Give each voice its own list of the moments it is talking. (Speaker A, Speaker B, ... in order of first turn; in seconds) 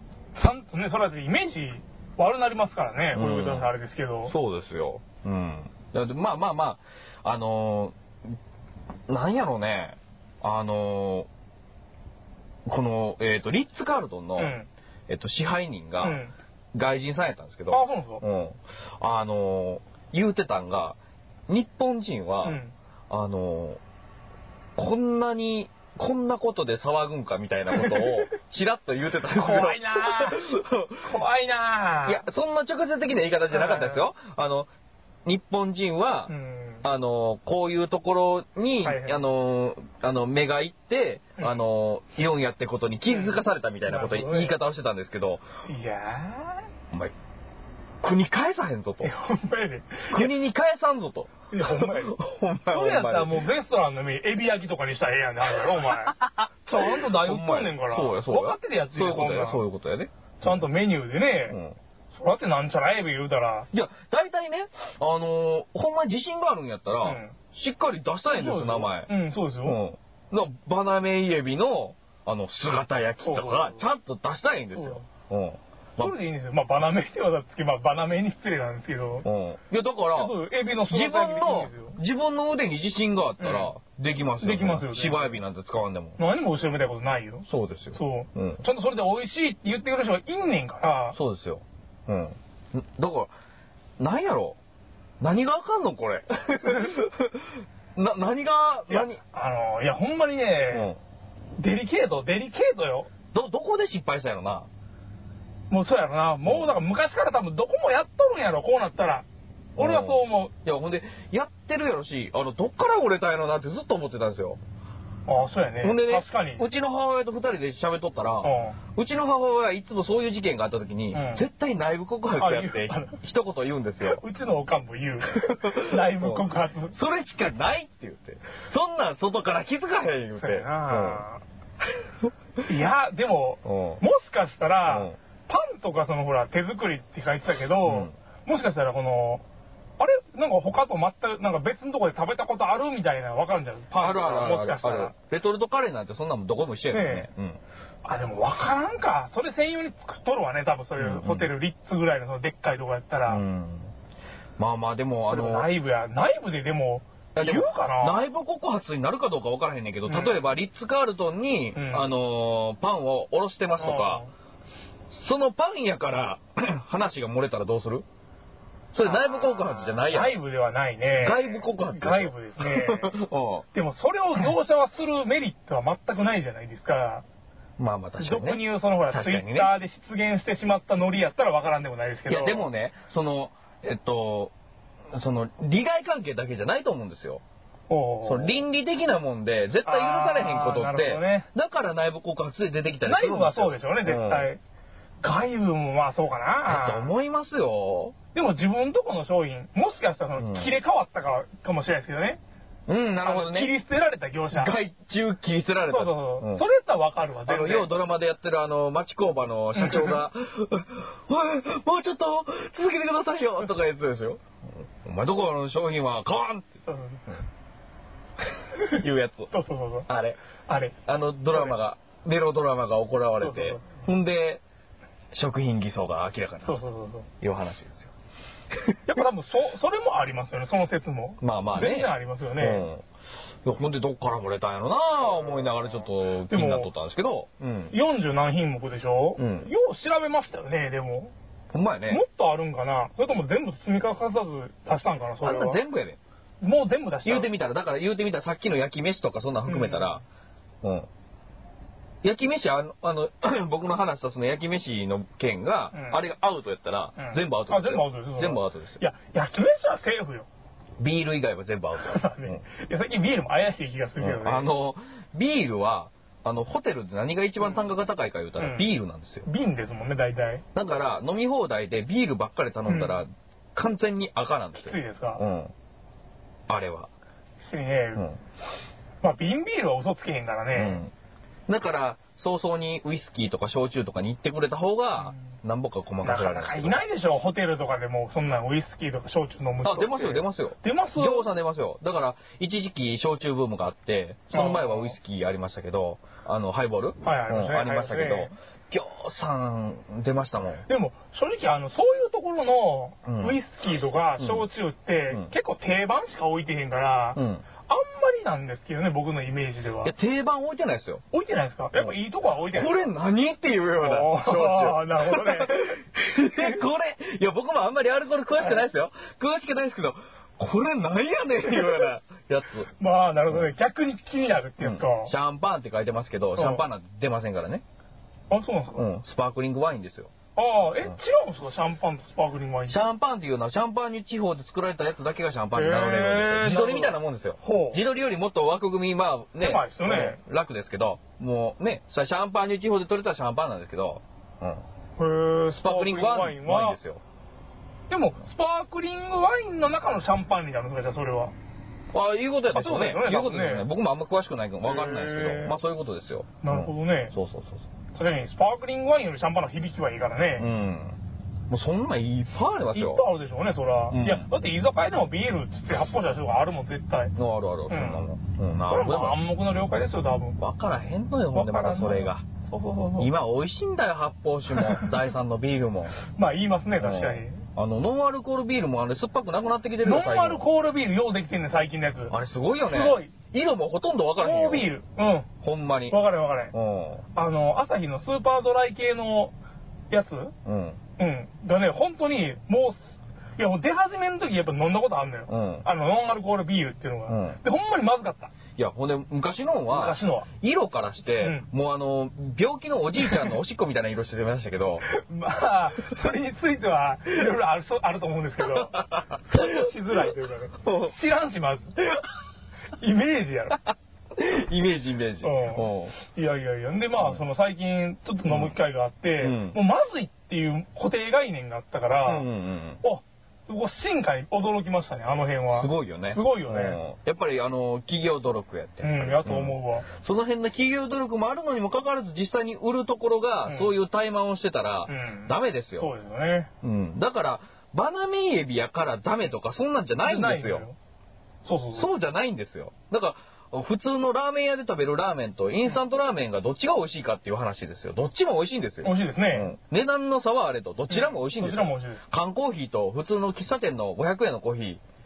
Speaker A: 0.3-4.3, 14.4-14.7, 16.0-16.3, 17.7-18.2, 22.4-22.7, 27.7-28.3, 29.2-30.4, 31.0-32.2, 33.5-34.0, 36.3-36.9, 38.8-39.2, 43.1-44.6, 45.6-46.7, 49.0-50.4, 51.5-52.2, 52.7-59.6, 60.4-61.6, 62.1-63.7, 67.0-67.3, 68.3-69.8, 73.2-73.8, 74.8-75.0, 76.0-79.2, 80.1-82.0, 83.4-83.7, 84.4-85.4, 86.2-91.2, 98.9-100.9, 101.6-103.1, 105.7-109.2, 109.8-110.5, 115.2-116.6, 118.4-118.8, 121.1-121.5, 122.4-123.2, 124.0-127.0, 130.4-131.4, 132.7-139.4, 140.0-145.1, 146.9-147.3, 148.0-153.4, 155.3-158.2, 160.1-160.4, 161.7-162.1, 163.8-164.3, 169.0-173.1, 173.7-177.2, 178.2-182.7, 187.9-188.6, 189.8-191.5, 193.0-194.6, 195.2-197.1, 198.3-202.4, 203.2-204.7, 205.9-207.9, 209.7-210.2, 216.8-217.3, 219.5-220.1, 220.7-220.9, 223.4-223.8, 226.6-227.3, 229.1-232.9, 236.5-236.9, 237.9-241.3, 242.1-245.8, 246.6-247.5, 249.7-250.2, 255.9-256.2, 257.2-260.5, 262.0-264.7, 268.6-268.9, 269.4-270.6, 272.9-273.2, 274.8-275.4, 277.6-278.3, 279.2-281.0, 286.2-291.5, 294.5-295.1, 297.2-298.5, 300.9-310.1, 311.3-313.1, 314.0-316.0, 316.5-316.8, 318.6-318.8, 321.7-322.1, 322.9-325.3, 326.5-326.8, 328.5-329.0, 330.6-333.0, 335.7-338.0, 339.6-340.4, 345.2-347.0, 348.1-351.5, 352.7-353.9, 354.8-355.8, 356.6-357.3, 358.1-360.7, 362.9-367.3, 367.9-368.3, 368.9-370.6, 371.5-373.3, 374.7-375.1, 376.2-377.6, 380.0-382.3, 382.8-383.3, 384.4-385.5, 386.1-386.7, 387.3-389.5, 390.1-390.5, 391.2-398.5, 399.9-400.5, 401.4-401.7, 405.1-411.9, 413.0-413.8, 415.4-422.5, 423.0-427.0, 429.0-430.1, 433.6-433.9, 435.1-436.7, 440.2-440.9, 441.6-442.1, 449.0-449.7, 451.1-452.2
Speaker B: 3.1-3.7, 4.3-8.3, 9.1-11.3, 12.7-14.5, 15.1-16.2, 16.7-21.0, 21.5-22.6, 23.1-23.8, 24.8-31.1, 32.0-34.7, 35.2-45.4, 48.0-49.1, 50.1-53.4, 55.9-60.6, 61.5-61.8, 63.7-69.1, 69.6-76.1, 79.2-86.2, 87.5-88.6, 91.1-93.3, 94.0-94.6, 95.2-99.2, 100.7-101.0, 103.3-104.7, 109.8-114.6, 115.8-124.2, 125.3-131.2, 133.6-134.0, 134.8-135.2, 137.8-138.1, 144.0-147.6, 151.0-151.5, 153.3-153.9, 154.6-155.7, 157.3-164.2, 165.1-168.1, 168.9-170.4, 171.1-173.7, 177.8-179.7, 182.3-184.5, 185.1-187.4, 188.2-194.5, 196.7-198.1, 200.4-200.7, 202.9-203.7, 204.5-206.6, 207.5-214.4, 215.0-217.4, 218.8-219.5, 220.1-220.4, 221.0-224.6, 225.3-226.9, 227.4-228.1, 228.7-229.0, 231.4-233.0, 233.6-237.9, 239.4-239.7, 241.7-242.2, 245.4-246.2, 247.2-250.2, 250.8-251.1, 252.2-259.0, 261.0-262.6, 264.2-269.5, 270.7-275.7, 276.7-277.1, 280.7-281.1, 281.7-287.0, 289.8-300.9, 303.2-303.6, 304.4-304.6, 307.3-307.6, 310.0-311.2, 312.7-322.9, 324.8-327.8, 328.9-330.3, 332.9-344.8, 345.7-347.2, 352.1-357.9, 360.6-361.2, 361.7-363.2, 364.1-364.5, 367.4-369.4, 370.6-372.4, 373.2-376.2, 377.0-380.6, 382.3-384.9, 385.6-386.2, 386.7-387.2, 390.6-391.0, 395.5-395.9, 397.3-397.6, 398.8-405.1, 408.7-409.9, 410.8-411.1, 414.4-416.2, 418.5-418.8, 419.4-419.8, 422.2-423.0, 425.7-436.1, 436.8-440.9, 441.9-455.0